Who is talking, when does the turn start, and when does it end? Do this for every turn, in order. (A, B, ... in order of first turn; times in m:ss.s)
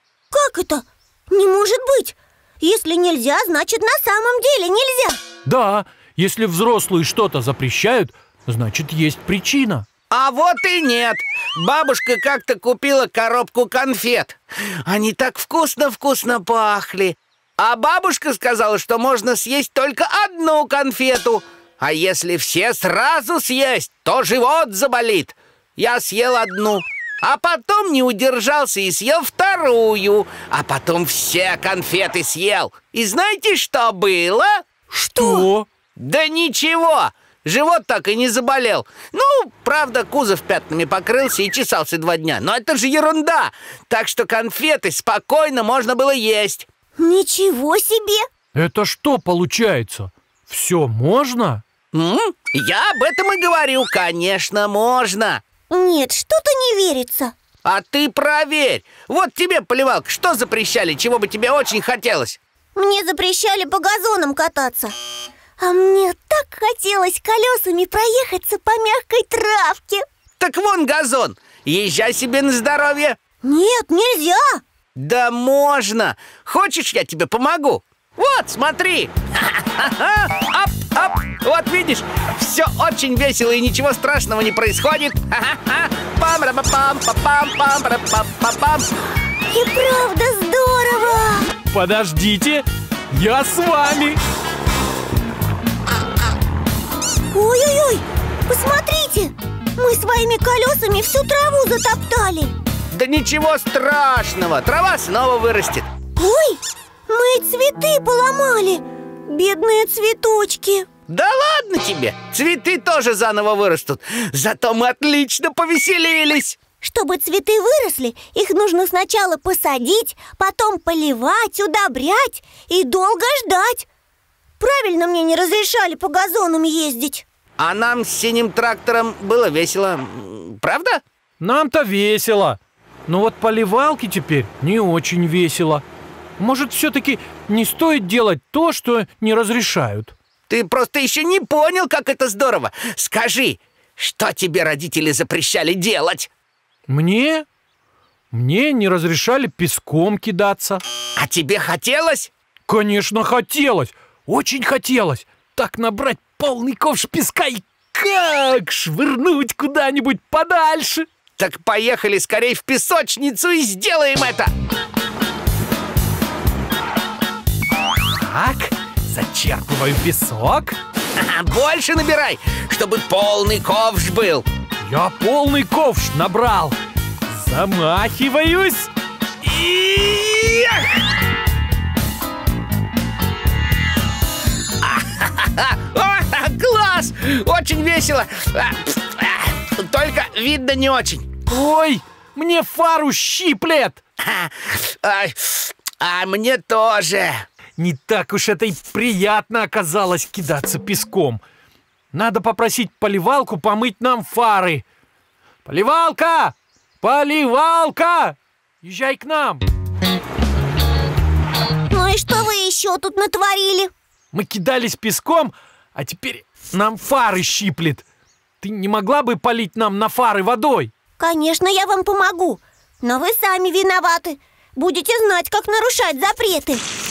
0:00.3-0:05.2 A
0:05.4-0:09.8 B
0:10.1-0:34.6 C
0:34.9-0:35.7 B
0:35.2-0:46.7 C
0:47.0-0:48.3 A
0:48.5-0:51.6 B
0:51.9-0:55.4 C
0:55.7-0:57.3 A
0:57.6-1:02.4 C
1:02.8-1:04.9 A
1:05.6-1:10.0 A
1:10.4-1:13.2 C
1:13.4-1:14.6 A
1:15.0-1:28.9 C
1:29.5-1:31.5 A
1:31.7-1:34.2 B
1:37.3-1:42.5 A
1:42.9-1:45.9 C
1:46.2-1:50.9 A
1:51.1-1:56.6 C
1:56.8-2:03.9 A
2:04.6-2:07.2 A
2:07.6-2:11.0 C
2:11.4-2:15.8 B
2:16.4-2:20.1 B
2:20.5-2:26.3 C
2:26.9-2:27.4 B
2:28.3-2:30.8 B
2:31.2-2:32.3 C
2:32.7-2:41.1 B
2:41.4-2:44.5 C
2:48.2-2:50.8 B
2:51.2-2:54.4 C
2:54.8-2:56.8 B
2:57.3-2:58.9 B
2:59.4-3:00.9 C
3:04.8-3:11.3 C
3:11.5-3:14.0 B
3:14.2-3:17.4 C
3:17.8-3:21.4 B
3:22.1-3:24.8 B
3:25.6-3:29.6 B
3:31.9-3:33.9 A
3:34.3-3:38.0 B
3:38.6-3:40.9 B
3:41.2-3:46.8 A